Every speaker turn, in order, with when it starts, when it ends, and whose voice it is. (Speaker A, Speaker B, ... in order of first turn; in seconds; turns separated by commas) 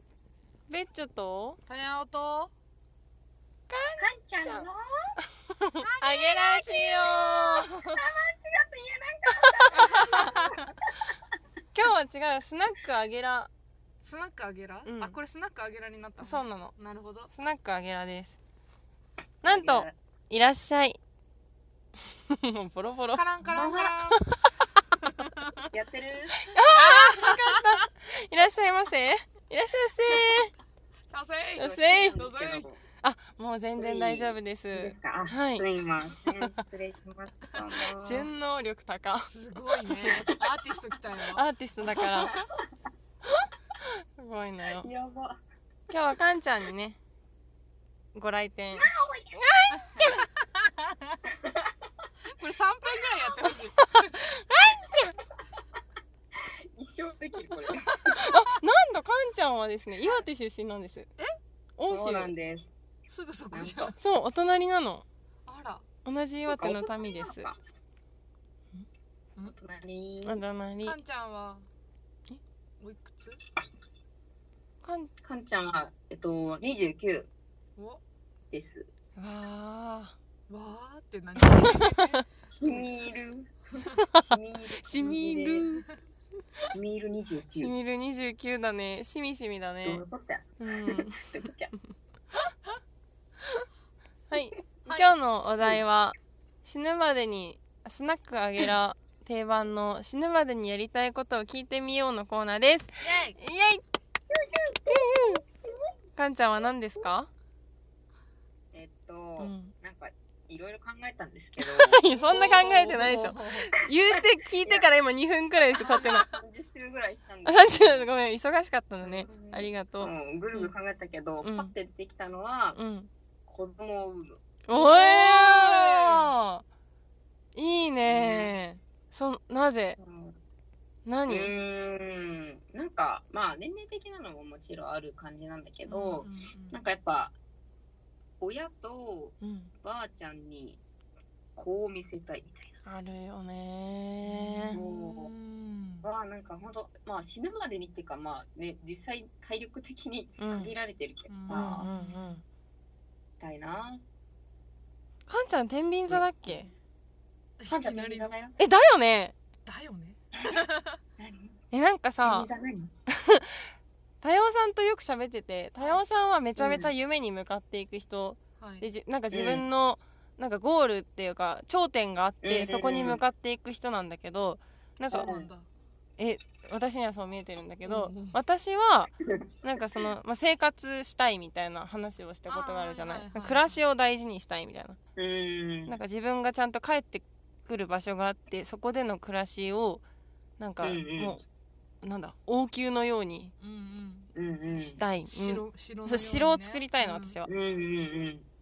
Speaker A: 0.7-1.6, Speaker B: 1.7-2.5, Speaker A: 3.7-4.7, Speaker C: 4.0-5.2, Speaker A: 5.5-7.7, Speaker C: 5.8-11.1, Speaker B: 9.8-10.3, Speaker A: 9.9-10.3, Speaker A: 11.7-13.5, Speaker B: 14.0-17.3, Speaker A: 14.8-15.2, Speaker A: 16.2-16.8, Speaker A: 17.3-18.4, Speaker A: 19.4-21.0, Speaker C: 19.4-19.9, Speaker A: 22.3-23.2, Speaker B: 23.1-24.2, Speaker C: 23.5-23.9, Speaker B: 25.1-25.7, Speaker C: 25.7-26.4, Speaker A: 26.5-30.5, Speaker B: 26.7-27.8, Speaker B: 31.1-32.7, Speaker A: 31.6-32.2, Speaker C: 32.1-32.8, Speaker A: 33.0-35.6, Speaker C: 33.8-38.3, Speaker A: 38.0-39.3, Speaker B: 39.2-41.4, Speaker A: 39.9-40.2, Speaker A: 41.3-42.4, Speaker C: 41.9-42.6, Speaker A: 43.3-44.9, Speaker C: 44.6-45.4, Speaker A: 45.9-47.0, Speaker A: 48.1-50.2, Speaker C: 48.7-49.4, Speaker B: 49.7-51.2, Speaker C: 51.4-51.7, Speaker B: 52.2-54.4, Speaker A: 54.5-55.1, Speaker C: 56.7-58.2, Speaker A: 58.1-61.1, Speaker A: 61.8-62.3, Speaker C: 61.9-62.7, Speaker B: 63.1-64.0, Speaker C: 63.5-63.9, Speaker A: 64.0-65.0, Speaker B: 65.5-65.8, Speaker A: 66.0-67.5, Speaker C: 66.5-67.6, Speaker B: 68.7-69.5, Speaker C: 69.4-70.4, Speaker A: 70.2-71.0, Speaker B: 70.8-71.7, Speaker B: 72.8-73.4, Speaker A: 74.8-75.1, Speaker C: 75.2-77.3, Speaker C: 78.5-78.9, Speaker A: 79.2-80.1, Speaker B: 80.5-82.8, Speaker A: 81.4-82.2, Speaker C: 82.5-85.7, Speaker A: 84.8-85.8, Speaker C: 86.7-87.7, Speaker A: 87.5-90.0, Speaker C: 89.8-91.7, Speaker A: 90.6-91.3, Speaker A: 94.3-103.8, Speaker B: 94.8-95.1, Speaker B: 103.0-103.4, Speaker C: 104.3-105.8, Speaker A: 104.9-105.4, Speaker A: 106.2-107.3, Speaker C: 108.7-112.4, Speaker A: 109.4-109.7, Speaker A: 111.6-116.3, Speaker B: 112.2-113.7, Speaker C: 114.1-114.9, Speaker C: 115.7-118.1, Speaker B: 115.7-116.4, Speaker A: 117.4-120.1, Speaker C: 119.0-122.8, Speaker A: 121.4-121.7, Speaker A: 122.7-123.1, Speaker C: 123.5-124.4, Speaker A: 124.7-126.6, Speaker B: 124.7-126.3, Speaker A: 127.5-130.0, Speaker C: 128.0-128.5, Speaker C: 130.0-130.4, Speaker A: 131.1-131.5, Speaker C: 131.3-137.3, Speaker B: 135.8-136.8, Speaker C: 138.4-140.8, Speaker A: 139.4-139.7, Speaker C: 141.6-142.8, Speaker A: 142.8-144.8, Speaker B: 144.2-146.1, Speaker C: 144.7-145.3, Speaker C: 146.0-151.9, Speaker A: 150.4-150.7, Speaker B: 151.3-152.4, Speaker A: 151.5-152.4, Speaker C: 153.4-154.0, Speaker A: 155.3-156.7, Speaker C: 156.1-156.3, Speaker B: 157.6-158.3, Speaker C: 157.7-158.6, Speaker A: 158.6-159.3, Speaker B: 159.7-161.0, Speaker C: 161.2-161.6, Speaker A: 161.7-162.5, Speaker C: 162.2-162.9, Speaker A: 163.1-175.3, Speaker B: 165.8-166.0, Speaker C: 166.6-166.9, Speaker B: 168.6-168.9, Speaker C: 169.3-169.6, Speaker C: 172.4-173.2, Speaker B: 175.1-175.7, Speaker C: 175.1-175.5, Speaker A: 176.2-185.0, Speaker B: 177.8-178.4, Speaker B: 182.5-183.8, Speaker C: 185.2-186.0, Speaker A: 185.9-190.0, Speaker A: 190.6-191.4, Speaker C: 190.8-191.4, Speaker A: 192.0-193.5, Speaker B: 193.6-194.3, Speaker C: 194.3-195.0, Speaker A: 194.8-197.5, Speaker B: 195.2-197.4, Speaker C: 197.4-198.5